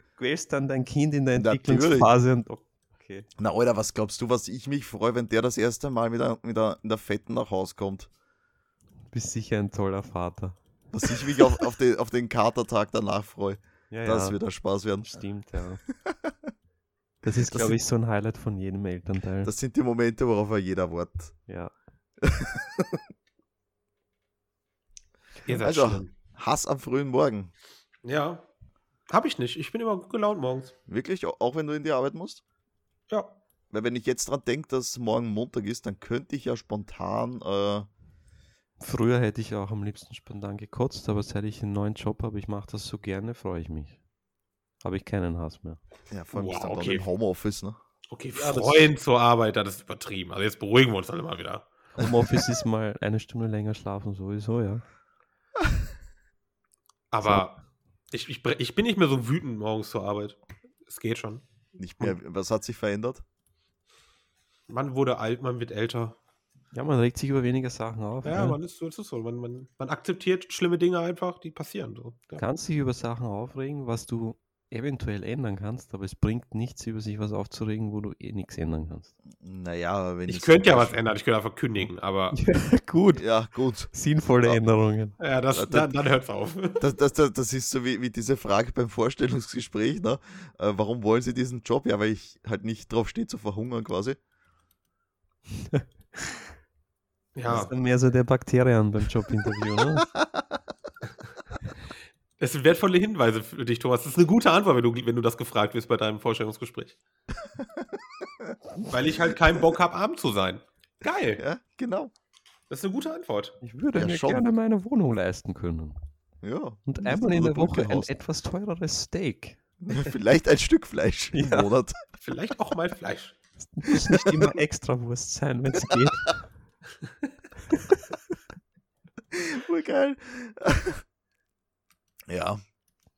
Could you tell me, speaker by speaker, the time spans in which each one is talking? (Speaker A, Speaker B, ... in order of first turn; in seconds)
Speaker A: 0.2-3.3, 9.1-11.7, 13.9-14.4, 15.0-15.8, 17.2-19.5, 21.5-21.7, 38.8-44.0, 44.8-45.8, 48.4-48.9, 52.0-54.8, 66.7-68.6, 72.4-79.1, 82.3-83.3, 83.9-85.2, 95.7-96.3, 97.5-100.1, 113.6-116.0, 116.9-119.6, 121.3-121.7, 123.6-126.4
Speaker B: 1.4-2.1, 3.4-8.1, 10.9-15.2, 16.0-16.3, 17.5-17.8, 19.4-21.4, 22.2-23.0, 25.6-27.5, 30.9-32.4, 33.7-37.9, 46.1-47.8, 61.8-63.2, 79.3-81.0, 83.2-83.9, 85.5-85.9, 86.8-94.2, 107.6-108.6, 111.4-112.1, 114.0-114.5, 116.4-118.1, 119.8-122.0, 124.1-124.5, 129.3-131.0, 132.3-132.6
Speaker C: 25.4-26.1, 28.0-28.4, 29.1-30.8, 33.1-33.4, 46.3-47.1, 48.1-51.7, 57.1-57.6, 58.1-61.4, 64.7-66.2, 68.2-72.4, 80.3-82.4, 85.2-86.8, 97.3-97.7, 102.4-107.0, 108.9-111.4, 112.7-113.6, 122.2-123.4